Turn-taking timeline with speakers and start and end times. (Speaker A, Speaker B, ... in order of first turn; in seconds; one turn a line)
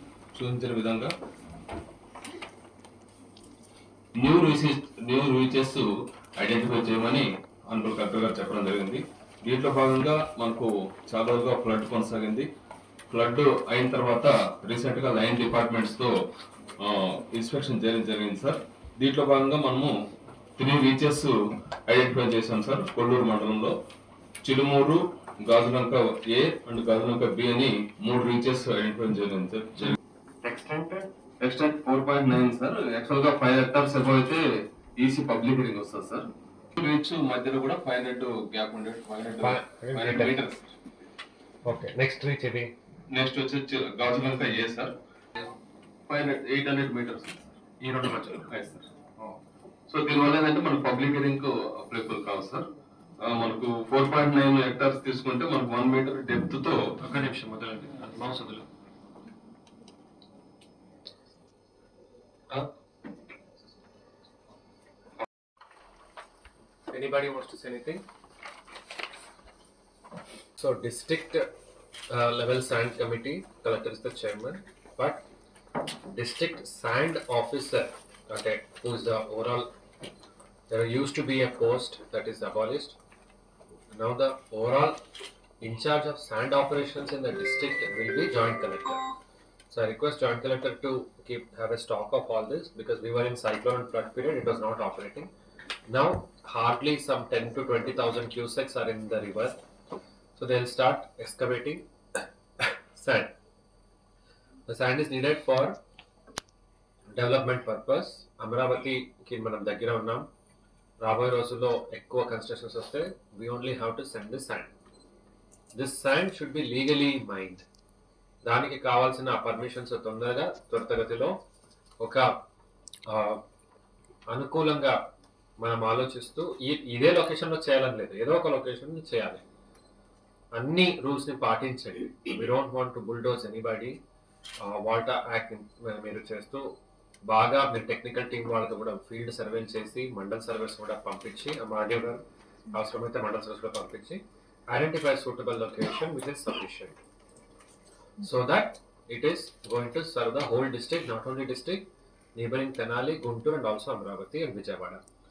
Speaker A: 0.3-1.1
Speaker A: 4.2-5.9
Speaker A: 6.4-12.5
Speaker A: 13.1-16.1
Speaker A: 16.8-19.9
Speaker A: 20.6-21.3
Speaker A: 21.9-23.7
Speaker A: 24.4-30.0
Speaker B: 30.4-31.1
Speaker A: 31.4-34.4
Speaker A: 35.0-40.6
Speaker B: 39.4-40.4
Speaker B: 41.6-42.7
Speaker A: 43.1-44.9
Speaker A: 46.1-47.5
Speaker B: 47.8-48.5
Speaker A: 48.4-48.9
Speaker A: 49.9-52.6
Speaker A: 53.2-56.8
Speaker B: 57.0-58.6
Speaker B: 66.9-68.0
Speaker B: 70.6-71.5
Speaker B: 72.1-75.2
Speaker B: 76.1-79.7
Speaker B: 80.7-83.0
Speaker B: 83.9-85.0
Speaker B: 85.6-89.0
Speaker B: 89.7-95.3
Speaker B: 95.9-99.6
Speaker B: 100.4-101.8
Speaker B: 102.6-103.3
Speaker B: 104.7-105.8
Speaker B: 107.2-110.3
Speaker B: 111.0-114.7
Speaker B: 115.8-117.7
Speaker B: 118.4-121.3
Speaker B: 122.0-122.3
Speaker B: 123.1-123.4
Speaker B: 124.3-125.0
Speaker B: 125.6-129.4
Speaker B: 130.5-134.0
Speaker B: 134.6-136.6
Speaker B: 137.3-147.0
Speaker B: 148.2-155.0